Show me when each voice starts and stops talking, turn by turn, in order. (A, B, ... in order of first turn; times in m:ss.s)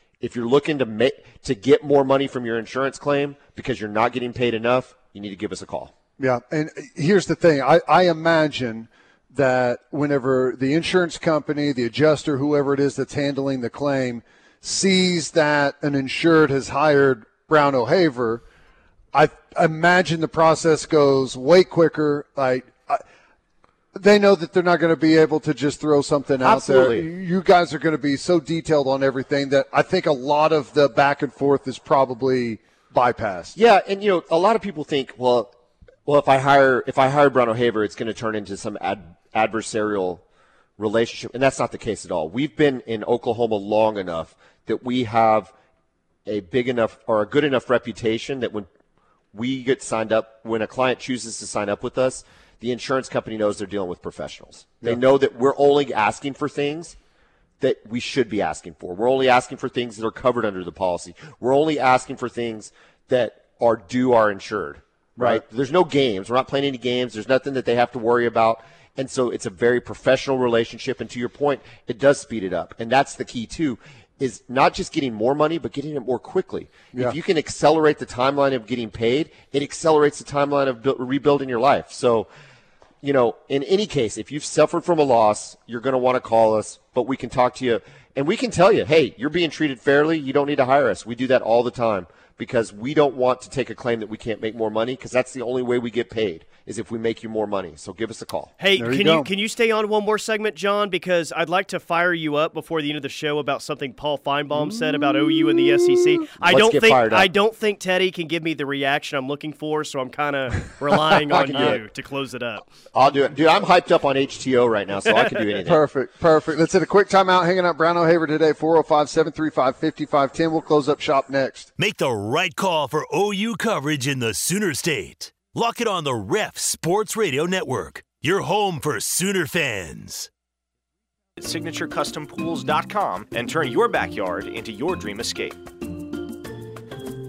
0:00.2-0:05.9 A
0:06.2-0:18.4 B
0:19.1-0:23.0 B
0:23.9-0:33.5 B
0:26.4-0:27.0 A
0:33.6-0:35.5 A
0:36.0-0:40.2 A
0:40.8-0:45.5 A
0:46.2-0:48.7 A
0:49.3-0:57.0 A
0:57.6-1:22.3 A
1:05.2-1:05.4 B
1:23.0-1:38.5 A
1:38.6-1:52.6 C
1:38.8-1:39.3 B
1:44.6-1:45.8 B
1:46.4-1:47.3 A
1:50.9-1:51.8 B
1:51.4-1:51.8 A
1:52.9-1:55.8 A
1:55.1-1:55.4 C
1:55.6-2:01.7 B
2:01.8-2:10.3 D
2:11.4-2:15.6 E